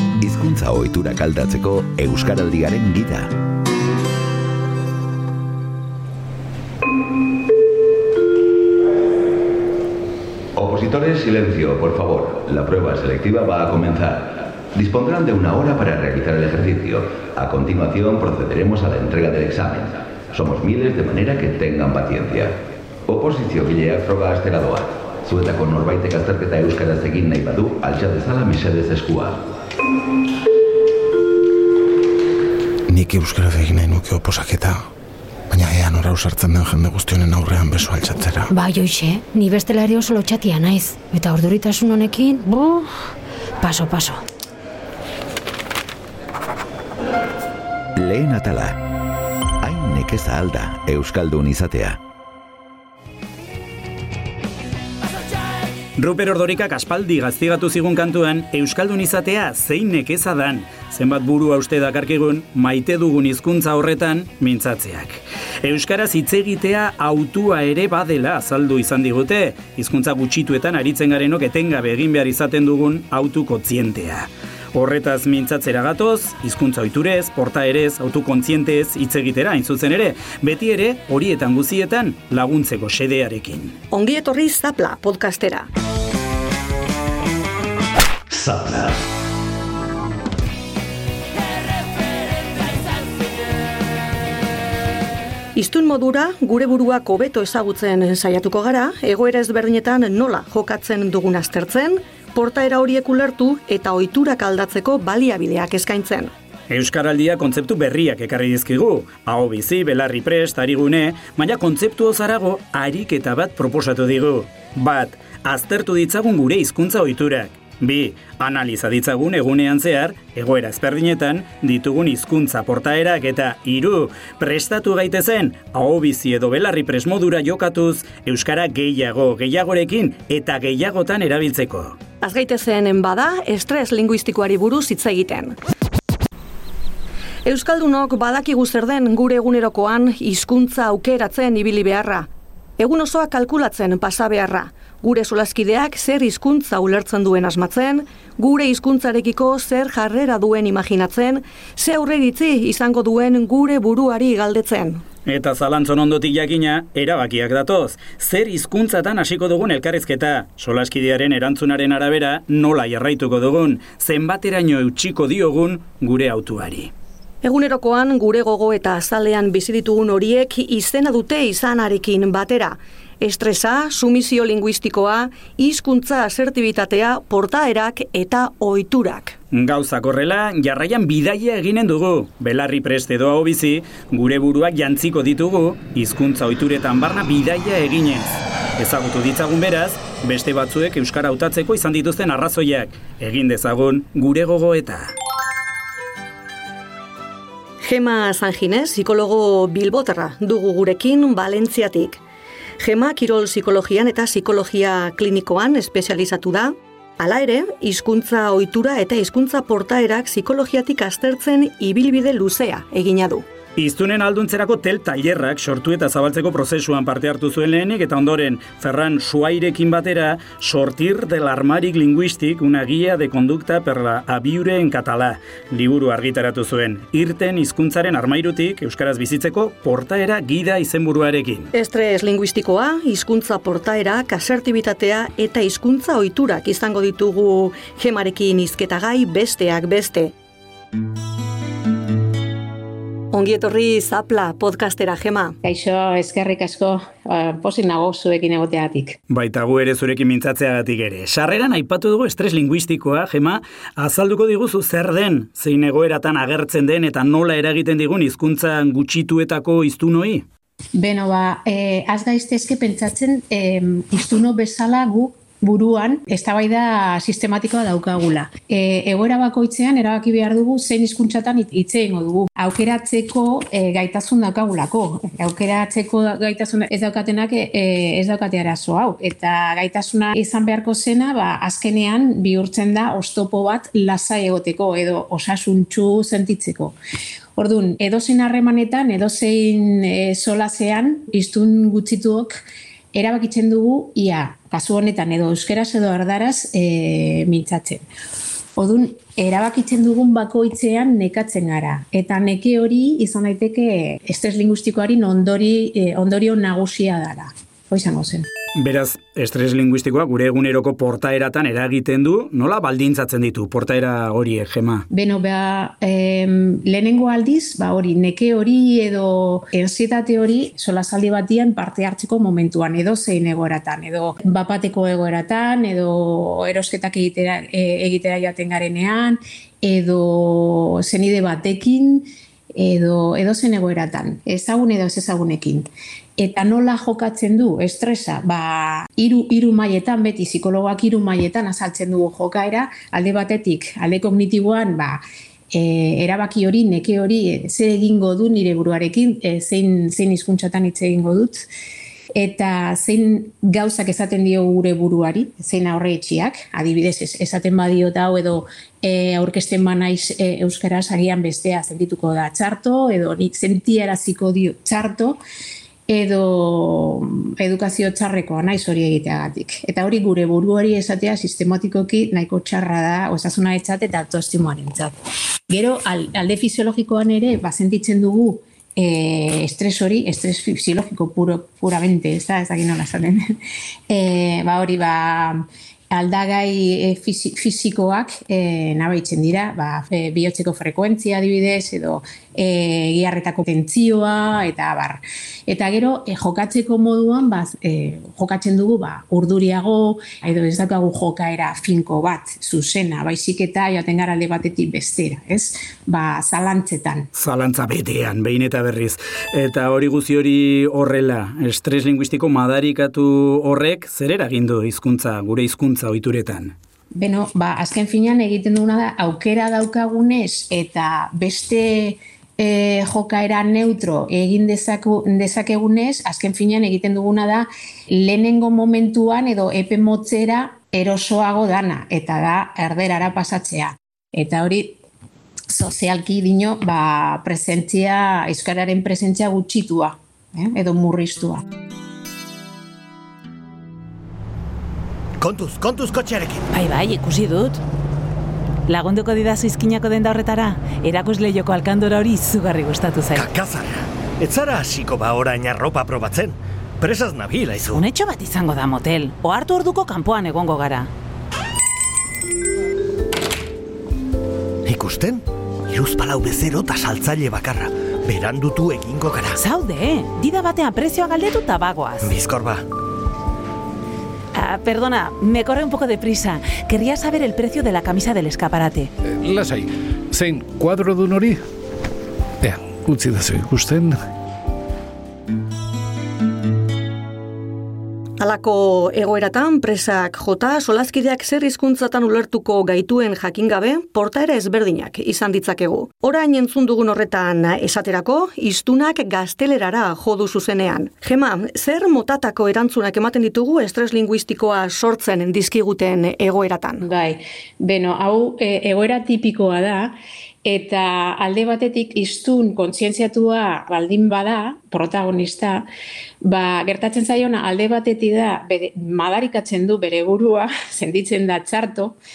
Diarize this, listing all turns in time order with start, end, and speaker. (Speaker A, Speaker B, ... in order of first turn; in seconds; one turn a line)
Speaker A: 0.2-3.3
Speaker A: 10.6-29.4
Speaker B: 32.9-34.8
Speaker B: 35.5-38.5
Speaker C: 38.5-44.2
Speaker A: 48.0-48.8
Speaker A: 49.6-52.0
Speaker D: 56.0-83.8
Speaker E: 83.9-85.7
Speaker F: 88.3-89.0
Speaker E: 95.5-106.3
Speaker D: 106.7-132.0
Speaker E: 132.2-135.6
Speaker E: 137.4-155.0
Speaker D: 155.3-166.9
Speaker E: 167.4-179.4
Speaker D: 179.5-195.1
Speaker E: 197.8-202.2
Speaker E: 202.8-213.5
Speaker D: 213.8-231.7
Speaker E: 231.7-240.3
Speaker E: 243.3-245.6
Speaker G: 245.6-249.2
Speaker D: 249.3-260.5
Speaker G: 260.9-286.9
Speaker G: 287.6-292.6
Speaker G: 293.1-298.0
Speaker G: 298.8-308.5
Speaker D: 308.8-315.1
Speaker G: 315.1-351.7
Speaker G: 352.4-365.4
Speaker G: 366.1-375.1
Speaker G: 375.7-383.6
Speaker G: 384.1-407.3
Speaker D: 407.4-416.8
Speaker G: 417.1-435.0
Speaker G: 435.7-441.6
Speaker F: 445.4-446.7
Speaker H: 446.7-447.8
Speaker H: 448.9-453.5
Speaker F: 453.3-453.9
Speaker F: 454.4-458.0
Speaker H: 457.9-461.1
Speaker F: 464.9-469.6
Speaker H: 469.6-472.3
Speaker F: 472.2-472.8
Speaker H: 474.5-479.1
Speaker I: 479.3-481.6
Speaker I: 482.6-484.2
Speaker E: 488.4-507.0
Speaker G: 507.0-515.9
Speaker G: 516.4-522.2